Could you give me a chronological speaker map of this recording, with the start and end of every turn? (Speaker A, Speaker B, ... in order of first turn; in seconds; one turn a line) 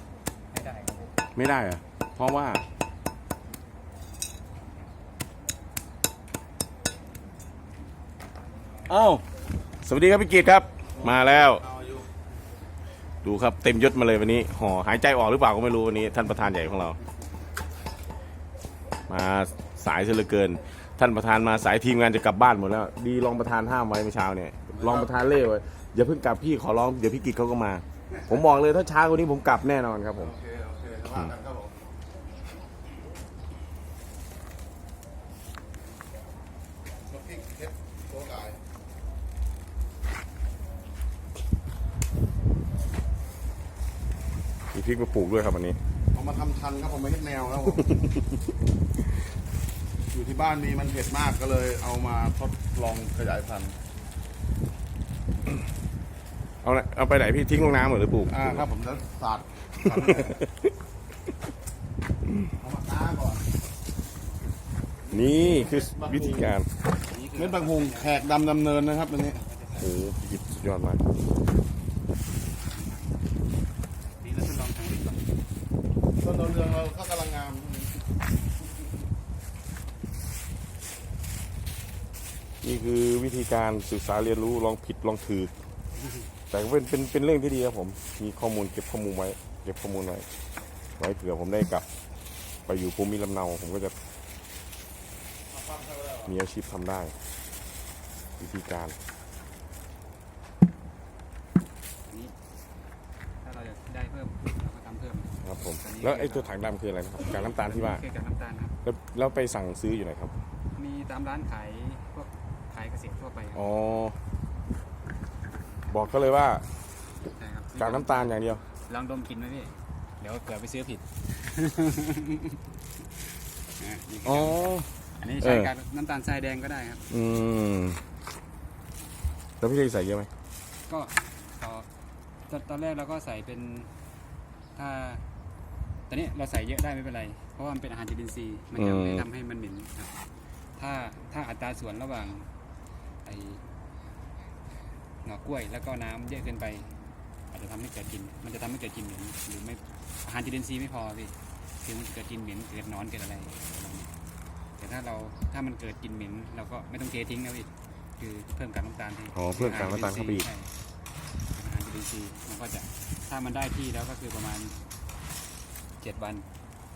Speaker A: 0.5-1.1
Speaker B: 1.3-2.6
Speaker B: 8.9-9.2
Speaker B: 9.8-11.7
Speaker C: 11.0-12.0
Speaker B: 13.2-17.0
Speaker B: 19.1-30.3
Speaker C: 30.3-31.7
Speaker C: 37.1-38.6
Speaker B: 44.7-45.8
Speaker C: 46.1-47.9
Speaker B: 47.8-48.1
Speaker C: 50.1-53.7
Speaker B: 56.6-58.7
Speaker C: 58.4-59.5
Speaker B: 59.8-60.7
Speaker A: 59.9-60.3
Speaker C: 62.6-63.4
Speaker B: 65.1-66.7
Speaker C: 65.9-66.2
Speaker A: 67.0-68.3
Speaker C: 67.4-69.3
Speaker A: 69.1-69.9
Speaker B: 69.7-71.0
Speaker A: 72.4-73.3
Speaker A: 74.2-75.3
Speaker C: 76.2-77.9
Speaker B: 82.6-85.5
Speaker B: 86.5-90.2
Speaker B: 91.0-91.8
Speaker B: 92.7-93.9
Speaker C: 95.7-96.2
Speaker B: 96.2-97.1
Speaker B: 98.4-98.9
Speaker A: 102.0-102.3
Speaker A: 103.4-106.5
Speaker B: 105.4-108.0
Speaker A: 107.2-108.7
Speaker B: 108.8-110.3
Speaker A: 110.7-113.7
Speaker B: 113.5-114.2
Speaker B: 115.9-116.6
Speaker A: 117.3-122.6
Speaker B: 117.8-118.6
Speaker A: 123.7-127.0
Speaker B: 124.2-124.9
Speaker B: 125.4-125.7
Speaker B: 127.1-128.0
Speaker B: 129.6-130.3
Speaker A: 130.9-131.9
Speaker A: 132.5-133.9
Speaker A: 134.8-135.2
Speaker A: 136.1-140.1
Speaker B: 138.7-139.3
Speaker A: 140.8-142.5
Speaker A: 143.2-143.6
Speaker A: 145.2-146.9
Speaker A: 147.5-154.1
Speaker A: 154.8-160.7
Speaker B: 159.3-160.5
Speaker A: 161.5-164.7
Speaker A: 166.0-166.4